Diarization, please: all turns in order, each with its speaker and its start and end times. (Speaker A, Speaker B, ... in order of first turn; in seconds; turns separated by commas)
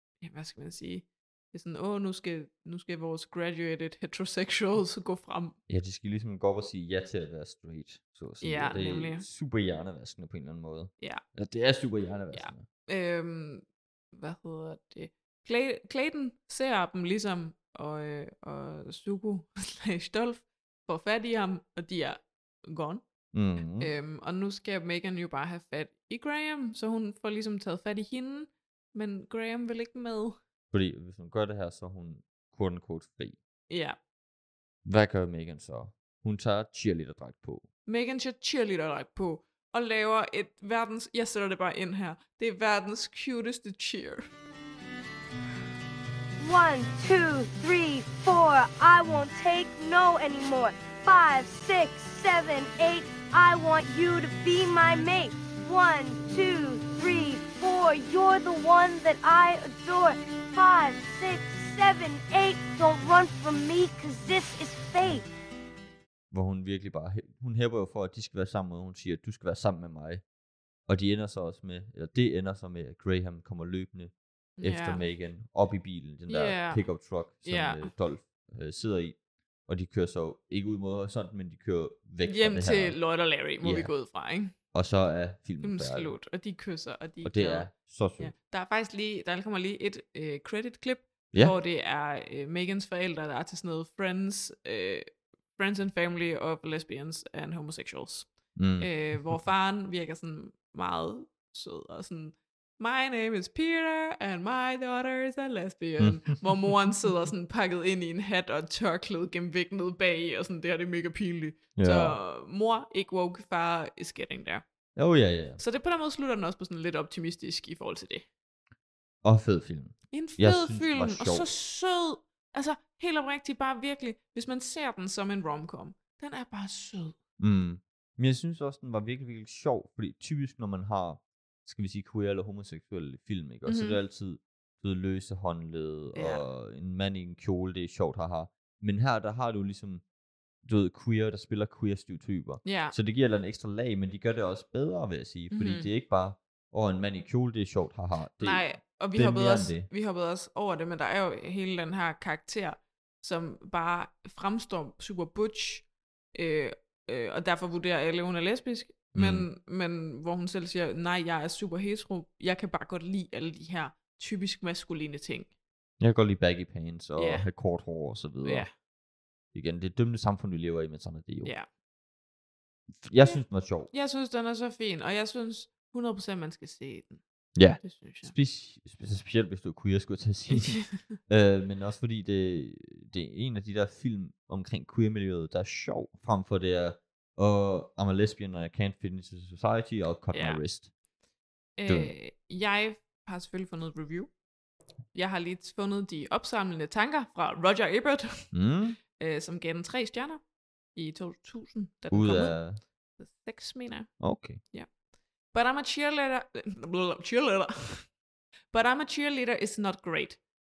Speaker A: 0.2-5.6, Speaker B: 5.7-12.7, Speaker A: 8.4-9.3, Speaker A: 12.3-23.0, Speaker B: 23.3-23.9, Speaker A: 23.8-30.4, Speaker B: 30.7-33.4, Speaker A: 33.7-34.0, Speaker B: 34.9-37.7, Speaker A: 37.9-44.3, Speaker C: 46.4-65.3, Speaker B: 66.3-70.2, Speaker B: 70.9-83.0, Speaker A: 74.6-75.0, Speaker A: 76.3-76.8, Speaker A: 77.4-77.9, Speaker A: 82.2-84.5, Speaker B: 83.6-83.9, Speaker B: 84.7-86.2, Speaker A: 85.6-114.7, Speaker B: 87.2-88.3, Speaker B: 98.6-99.4, Speaker B: 106.0-106.4, Speaker B: 111.8-112.2, Speaker B: 115.0-115.6, Speaker A: 115.6-118.2, Speaker B: 119.2-121.5, Speaker A: 120.1-127.2, Speaker B: 127.4-140.0, Speaker A: 133.7-134.0, Speaker A: 136.1-136.4, Speaker B: 140.6-149.9, Speaker A: 142.6-143.0, Speaker A: 145.5-145.9, Speaker A: 148.4-165.5, Speaker B: 159.2-159.5, Speaker B: 166.0-168.7, Speaker A: 167.2-167.5, Speaker A: 168.4-168.7, Speaker B: 169.5-171.5, Speaker B: 173.0-173.9, Speaker A: 173.2-177.2, Speaker B: 177.6-190.9, Speaker A: 177.8-178.3, Speaker A: 190.3-190.6, Speaker A: 191.8-194.3, Speaker A: 195.1-198.5, Speaker B: 198.5-199.0, Speaker A: 199.2-200.4, Speaker A: 200.9-202.6, Speaker B: 202.1-202.8, Speaker A: 203.2-204.2, Speaker B: 204.2-204.6, Speaker A: 205.5-208.1, Speaker A: 208.7-210.4